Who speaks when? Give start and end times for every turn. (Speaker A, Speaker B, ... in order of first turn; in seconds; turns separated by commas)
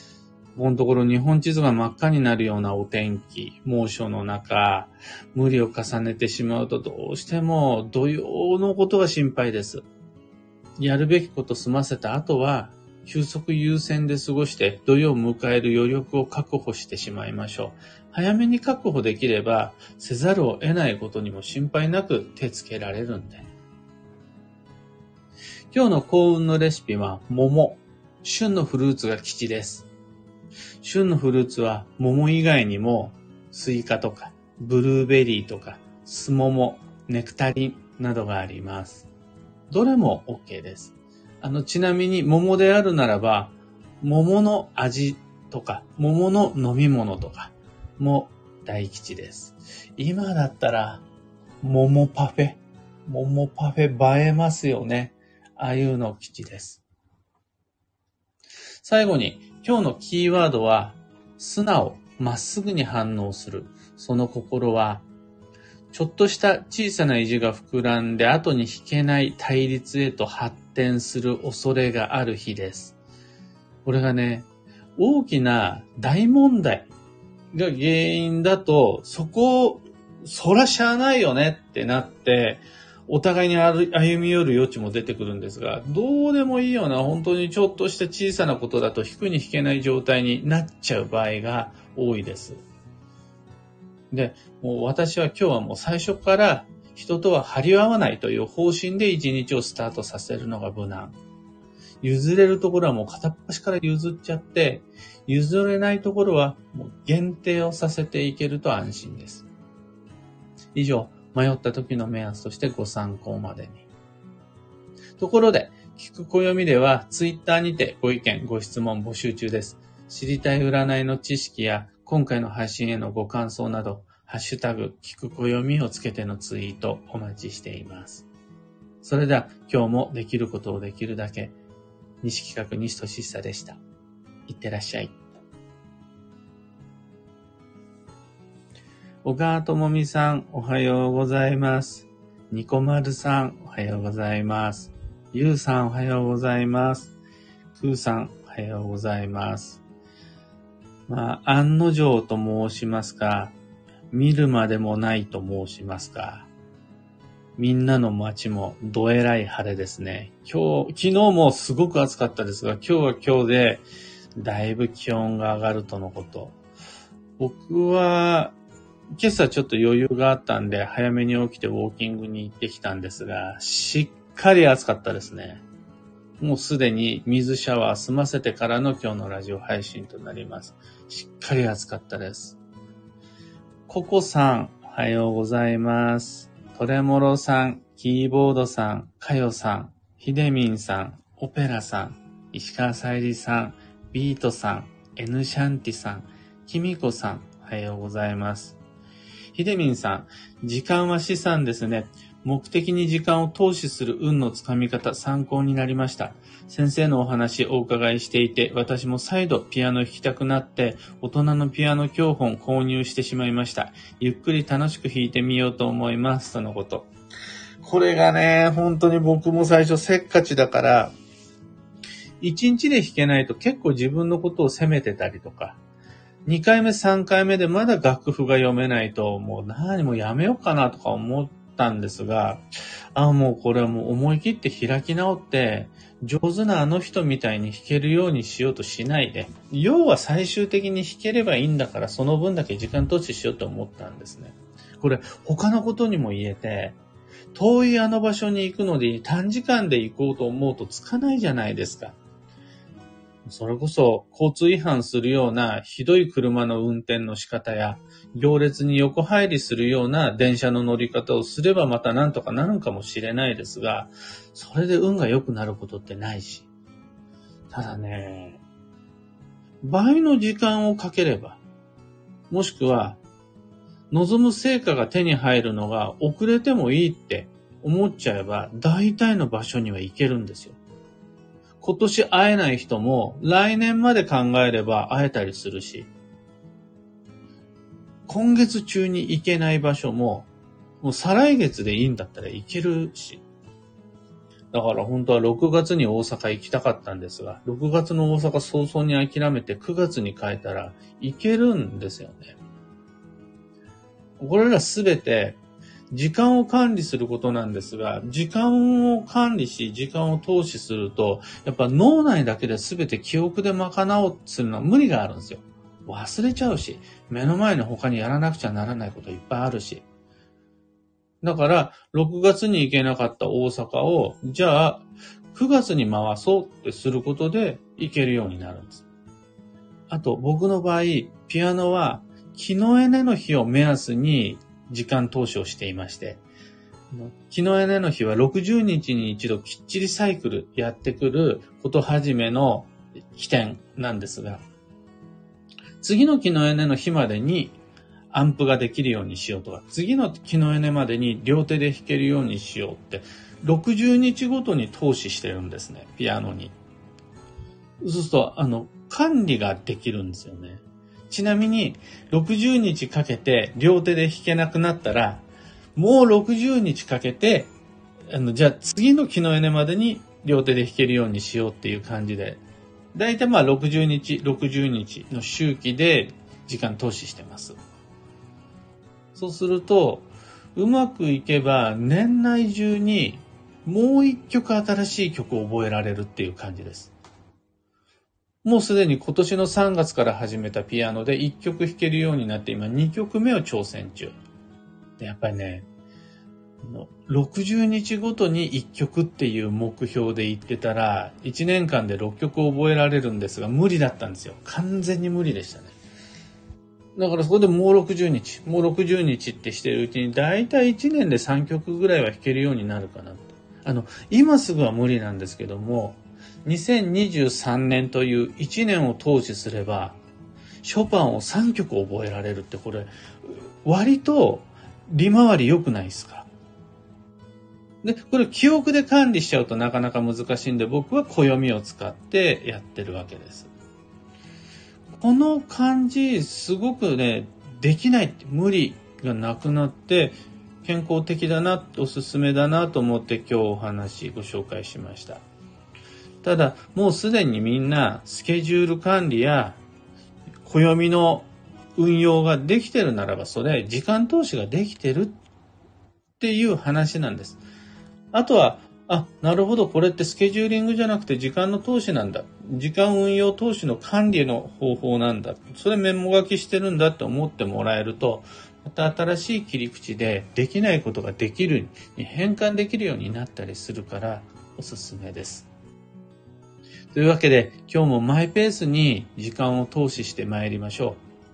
Speaker A: 0.6-9.9, Speaker A: 10.8-23.5, Speaker A: 25.7-29.9, Speaker A: 30.8-39.1, Speaker A: 39.7-51.0, Speaker A: 51.6-56.8, Speaker A: 58.8-65.0, Speaker A: 65.9-73.0, Speaker A: 73.8-76.9, Speaker A: 77.5-92.6, Speaker A: 94.1-101.2, Speaker A: 102.0-109.5, Speaker A: 110.7-113.9, Speaker A: 115.2-128.3, Speaker A: 129.0-131.6, Speaker A: 132.2-133.8, Speaker A: 134.5-135.2, Speaker A: 139.2-147.2, Speaker A: 147.7-149.8, Speaker A: 151.1-153.6, Speaker A: 154.1-156.5, Speaker A: 157.6-163.8, Speaker A: 164.4-166.6, Speaker A: 167.4-168.6, Speaker A: 169.2-175.6, Speaker A: 176.4-182.6, Speaker A: 183.9-198.8, Speaker A: 199.5-217.1, Speaker A: 217.8-221.1, Speaker A: 222.4-225.8, Speaker A: 226.4-232.6, Speaker A: 233.2-247.0, Speaker A: 247.5-252.2, Speaker A: 253.5-266.7, Speaker A: 267.7-268.6, Speaker A: 269.8-271.6, Speaker A: 272.5-273.2, Speaker A: 274.1-280.8, Speaker A: 281.8-286.1, Speaker A: 288.3-290.5, Speaker A: 291.0-293.4, Speaker A: 294.7-302.6, Speaker A: 304.4-305.6, Speaker A: 306.1-320.0, Speaker A: 321.4-329.1, Speaker A: 330.1-336.4, Speaker A: 337.1-344.6, Speaker A: 346.0-347.8, Speaker A: 348.3-356.7, Speaker A: 358.0-365.4, Speaker A: 366.0-367.7, Speaker A: 368.3-372.6, Speaker A: 373.1-377.8, Speaker A: 379.4-387.1, Speaker A: 388.6-394.4, Speaker A: 395.2-395.9, Speaker A: 396.8-405.9, Speaker A: 407.2-420.2, Speaker A: 420.8-426.5, Speaker A: 428.0-433.7, Speaker A: 435.1-445.4, Speaker A: 446.4-449.8, Speaker A: 450.6-455.4, Speaker A: 456.4-457.6, Speaker A: 458.3-475.7, Speaker A: 477.1-481.2